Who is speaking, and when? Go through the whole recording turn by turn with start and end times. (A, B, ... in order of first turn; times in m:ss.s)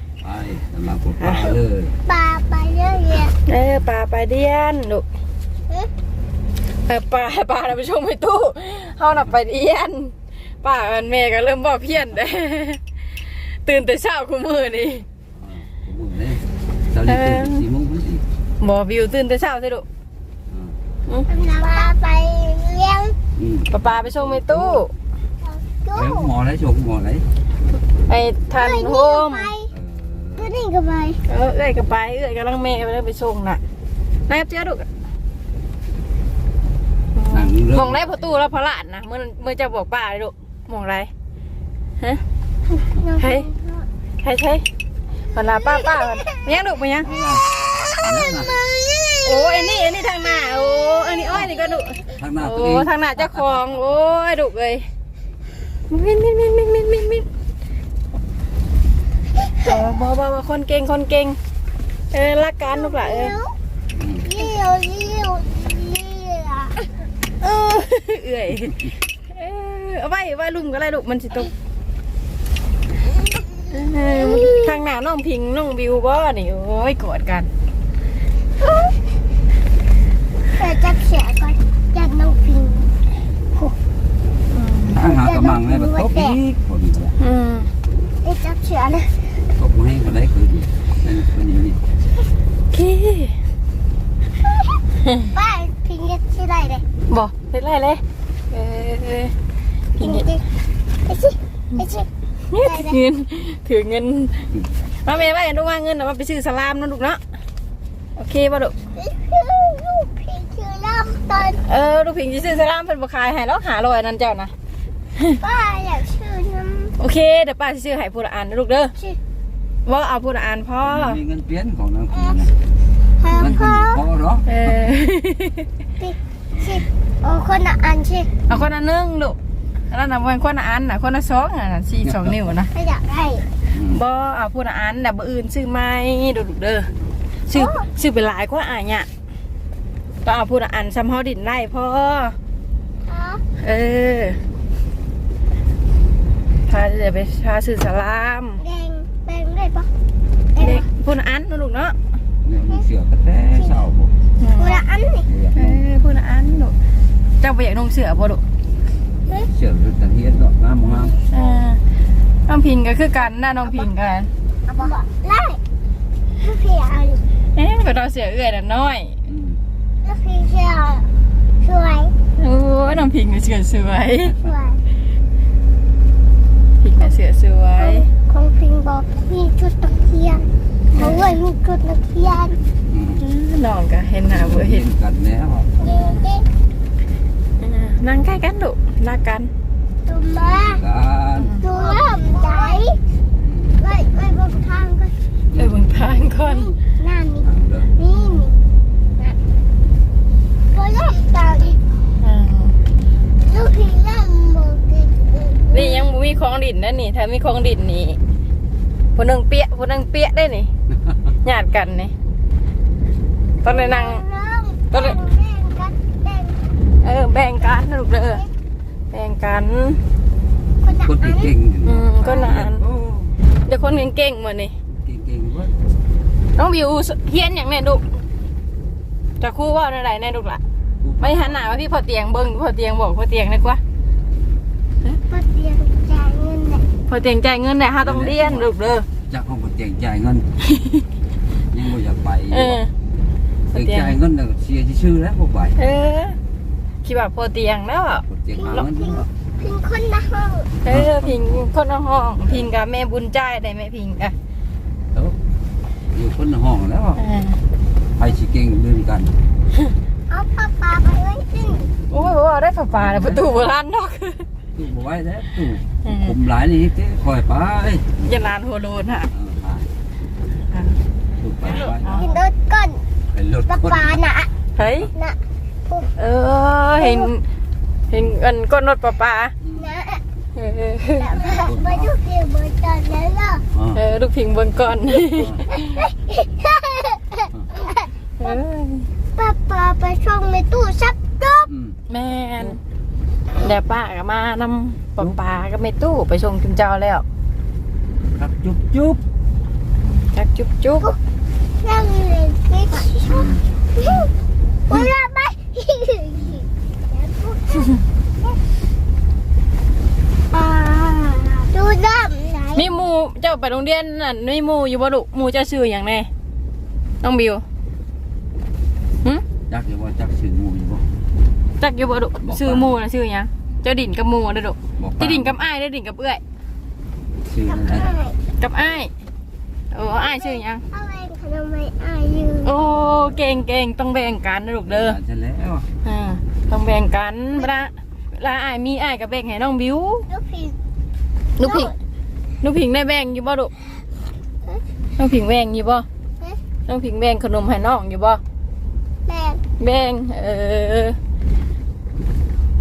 0:00.2-0:01.9 A
0:01.2-0:01.5 B
0:02.0-0:03.3 C
0:03.4-0:05.0 B
0:06.9-0:12.8 B
0:13.4-0:15.0 B
0:15.4-0:18.2 A
0:17.1-0:17.6 B
0:18.6-0:19.8 B
0:21.3-0:23.2 C
0:23.4-0:24.8 A
0:23.7-0:24.9 B
0:25.4-0:26.3 C
0:25.9-0:27.2 A
0:28.1-0:29.5 B
0:28.6-0:29.7 C
0:29.7-0:30.6 A
0:30.4-0:31.2 C
0:31.3-0:33.6 B
0:34.3-0:34.8 B
0:37.1-0:41.1 B
0:37.3-0:38.3 A
0:42.7-0:43.9 C
0:43.2-0:43.5 B
0:44.2-0:44.6 B
0:45.3-0:47.1 B
0:45.4-0:46.2 C
0:47.0-0:47.4 A
0:47.8-0:52.1 C
0:48.0-0:48.5 A
0:49.2-0:54.8 B
0:52.1-0:53.6 A
0:55.9-0:57.2 B
0:59.4-0:59.8 C
0:59.6-1:01.4 B
1:02.1-1:03.4 B
1:02.6-1:03.5 C
1:04.0-1:04.3 A
1:04.2-1:06.9 C
1:07.4-1:11.5 B
1:13.1-1:14.8 C
1:13.7-1:17.5 B
1:18.6-1:18.9 C
1:20.5-1:22.9 C
1:24.5-1:25.0 B
1:24.9-1:27.2 A
1:25.1-1:26.4 C
1:27.2-1:27.7 B
1:28.2-1:29.4 C
1:29.6-1:31.8 A
1:32.7-1:33.3 B
1:34.4-1:34.8 C
1:35.0-1:35.3 B
1:35.3-1:36.8 C
1:37.1-1:39.3 B
1:40.0-1:40.3 B
1:40.0-1:40.4 C
1:41.1-1:42.1 C
1:42.5-1:44.4 B
1:42.6-1:43.0 C
1:45.0-1:47.2 B
1:48.2-1:48.8 B
1:49.0-1:51.6 C
1:51.6-1:54.5 B
1:55.4-1:56.9 C
1:57.0-1:58.9 B
1:59.8-2:01.2 B
2:00.8-2:02.5 A
2:02.1-2:02.4 C
2:03.2-2:04.0 C
2:03.3-2:04.7 A
2:04.4-2:05.6 B
2:06.0-2:08.3 C
2:06.5-2:06.8 A
2:08.5-2:09.4 B
2:09.9-2:12.7 B
2:12.7-2:13.4 C
2:13.7-2:14.0 A
2:13.9-2:16.9 B
2:17.5-2:19.1 B
2:17.5-2:17.9 C
2:20.2-2:22.3 B
2:23.1-2:23.4 C
2:23.6-2:24.4 B
2:26.7-2:28.6 B
2:28.6-2:29.9 C
2:30.5-2:30.8 C
2:30.6-2:31.9 B
2:32.4-2:34.1 A
2:34.4-2:34.8 B
2:34.6-2:35.3 C
2:35.3-2:35.8 A
2:35.5-2:36.7 B
2:37.4-2:38.4 B
2:39.4-2:41.1 A
2:40.9-2:41.6 C
2:41.3-2:41.8 B
2:42.5-2:44.9 B
2:44.7-2:45.6 C
2:46.4-2:47.2 C
2:47.6-2:49.1 B
2:49.3-2:49.6 A
2:50.0-2:51.1 C
2:51.6-2:52.1 C
2:52.4-2:54.4 B
2:54.4-2:54.8 C
2:56.8-2:58.1 B
2:57.8-3:02.6 C
3:01.0-3:01.3 B
3:02.9-3:03.2 A
3:03.2-3:04.8 B
3:04.3-3:05.7 A
3:05.8-3:06.4 C
3:05.8-3:06.2 B
3:07.6-3:09.5 B
3:10.0-3:10.8 C
3:10.4-3:11.6 A
3:11.4-3:12.7 B
3:11.6-3:13.0 C
3:13.4-3:13.8 A
3:13.8-3:15.1 C
3:15.5-3:15.8 A
3:15.6-3:16.7 B
3:16.4-3:18.6 C
3:17.4-3:17.9 A
3:18.1-3:18.5 B
3:20.7-3:21.8 C
3:22.2-3:22.7 B
3:23.4-3:26.1 C
3:25.7-3:28.2 B
3:29.2-3:30.7 B
3:31.4-3:32.1 B
3:33.6-3:34.2 B
3:33.6-3:36.6 C
3:34.9-3:35.2 B
3:37.0-3:38.4 B
3:39.1-3:40.0 B
3:40.8-3:41.5 C
3:40.9-3:43.3 A
3:41.8-3:42.8 B
3:43.7-3:44.7 B
3:44.9-3:45.7 A
3:46.6-3:48.0 B
3:49.4-3:50.6 B
3:51.0-3:51.8 A
3:51.2-3:53.8 B
3:55.3-3:56.8 C
3:57.1-3:59.0 B
3:58.0-3:58.7 A
3:59.3-4:00.4 A
4:00.7-4:01.0 B
4:01.7-4:02.8 A
4:02.5-4:02.9 B
4:03.7-4:04.1 B
4:03.7-4:05.8 A
4:05.8-4:06.4 B
4:07.0-4:08.8 B
4:08.2-4:09.2 A
4:08.6-4:10.7 C
4:10.8-4:14.3 B
4:10.8-4:11.6 A
4:16.1-4:17.2 A
4:17.2-4:17.6 B
4:18.2-4:19.3 A
4:20.3-4:21.9 C
4:22.0-4:22.3 A
4:22.1-4:24.4 B
4:22.9-4:23.7 A
4:24.8-4:28.1 A
4:26.0-4:26.3 B
4:28.2-4:29.3 B
4:29.3-4:29.9 A
4:31.4-4:32.4 A
4:31.6-4:32.4 B
4:32.1-4:33.0 C
4:33.3-4:34.2 A
4:33.7-4:34.5 C
4:34.8-4:35.1 B
4:35.1-4:36.1 C
4:36.2-4:37.4 B
4:37.0-4:37.3 C
4:38.1-4:39.5 B
4:39.6-4:39.9 A
4:39.8-4:40.2 C
4:40.6-4:41.6 B
4:41.2-4:43.6 C
4:41.4-4:42.1 A
4:43.7-4:44.0 A
4:43.9-4:46.0 B
4:45.3-4:45.6 A
4:45.7-4:48.6 C
4:48.4-4:49.1 B
4:49.4-4:51.7 C
4:51.7-4:51.9 A
4:52.1-4:52.8 B
4:53.6-4:57.2 B
4:58.4-4:59.2 A
5:00.2-5:01.1 B
5:01.8-5:04.3 C
5:03.3-5:03.6 A
5:04.9-5:08.6 C
5:06.3-5:06.6 A
5:10.5-5:12.9 C
5:12.7-5:16.3 B
5:17.2-5:17.6 B
5:19.7-5:21.0 A
5:21.8-5:26.4 B
5:22.4-5:22.9 A
5:25.0-5:25.5 A
5:27.4-5:28.1 A
5:27.6-5:28.4 C
5:28.6-5:29.1 B
5:29.9-5:30.8 B
5:30.2-5:32.7 C
5:32.6-5:35.2 B
5:32.8-5:33.6 A
5:34.9-5:35.8 A
5:36.0-5:40.3 B
5:40.3-5:40.8 C
5:41.6-5:41.9 B
5:41.6-5:41.9 C
5:42.6-5:43.7 B
5:45.2-5:46.0 B
5:46.9-5:48.4 B
5:49.2-5:49.6 C
5:49.8-5:51.2 B